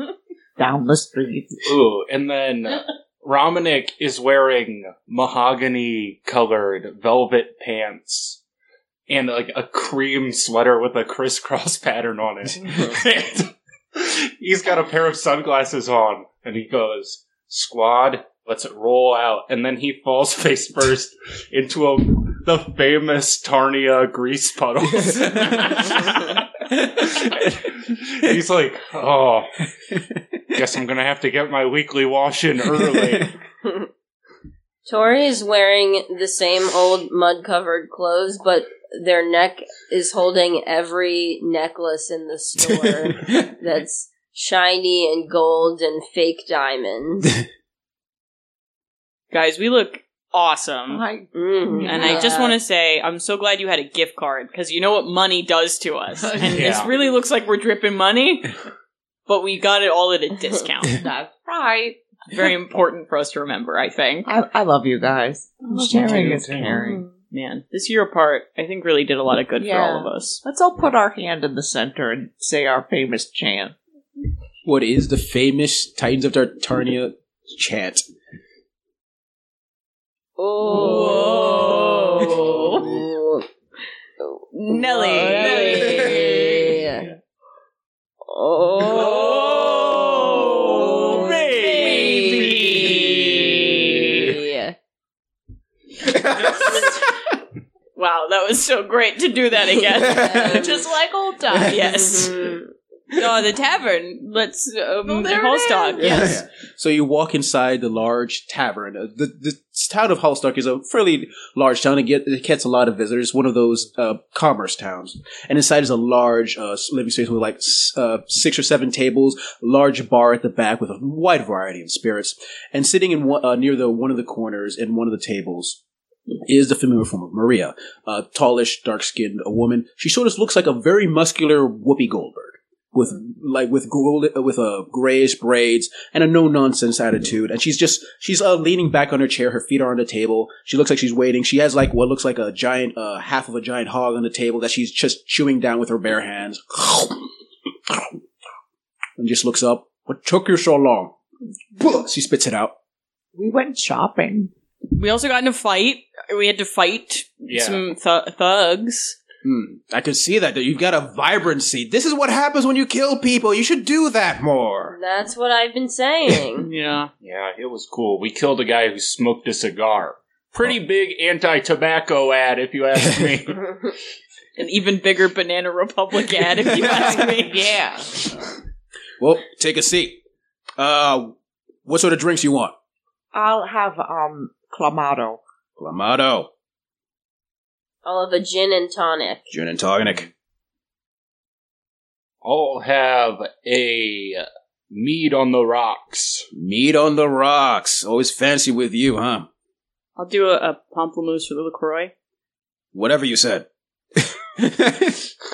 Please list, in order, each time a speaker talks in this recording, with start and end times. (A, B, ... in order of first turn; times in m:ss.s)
0:00.6-0:01.6 A
0:01.6-0:08.4 B
0:09.1-0:26.5 B
0:24.9-0:26.1 C
0:26.7-0:27.6 C
0:27.0-0:29.6 B
0:29.9-0:30.4 C
0:30.5-0:33.4 B
0:32.7-0:33.3 C
0:33.6-0:33.9 D
0:34.9-0:47.4 D
0:42.6-0:43.5 C
0:49.3-0:51.0 E
0:50.9-0:52.4 A
0:51.3-0:52.6 D
0:51.8-0:58.6 E
0:56.2-0:56.7 A
0:56.4-0:56.9 B
0:59.3-1:01.0 E
1:00.9-1:02.0 A
1:02.3-1:04.3 E
1:04.2-1:07.0 A
1:05.7-1:10.4 E
1:06.0-1:06.8 B
1:09.6-1:13.8 A
1:14.6-1:18.0 C
1:20.4-1:23.4 D
1:20.6-1:22.9 E
1:24.5-1:26.8 E
1:24.7-1:27.0 D
1:28.2-1:32.7 D
1:29.0-1:33.7 C
1:29.0-1:32.8 E
1:31.3-1:32.8 A
1:34.0-1:34.7 D
1:36.0-1:37.4 C
1:36.6-1:37.0 E
1:37.9-1:40.8 E
1:39.9-1:40.7 D
1:40.0-1:40.6 C
1:40.4-1:41.8 A
1:41.5-1:41.8 C
1:41.5-1:42.6 E
1:41.8-1:42.7 D
1:43.1-1:46.4 E
1:45.1-1:46.2 A
1:46.0-2:05.8 C
2:06.4-2:27.3 C
2:27.9-2:28.1 C
2:29.2-2:31.2 C
2:31.8-2:32.7 C
2:33.4-2:34.5 A
2:34.9-2:39.2 E
2:37.5-2:37.8 B
2:39.4-2:45.0 C
2:44.9-2:46.7 D
2:46.6-2:47.1 E
2:47.2-2:53.8 B
2:54.6-2:57.7 E
2:56.6-2:57.2 C
2:56.8-2:58.3 A
2:59.2-3:00.2 C
3:00.8-3:01.4 C
3:01.9-3:02.7 C
3:03.3-3:05.4 A
3:05.8-3:06.5 C
3:08.0-3:09.5 D
3:09.5-3:10.3 C
3:12.4-3:16.5 B
3:16.5-3:19.5 C
3:20.2-3:22.1 E
3:22.9-3:25.3 C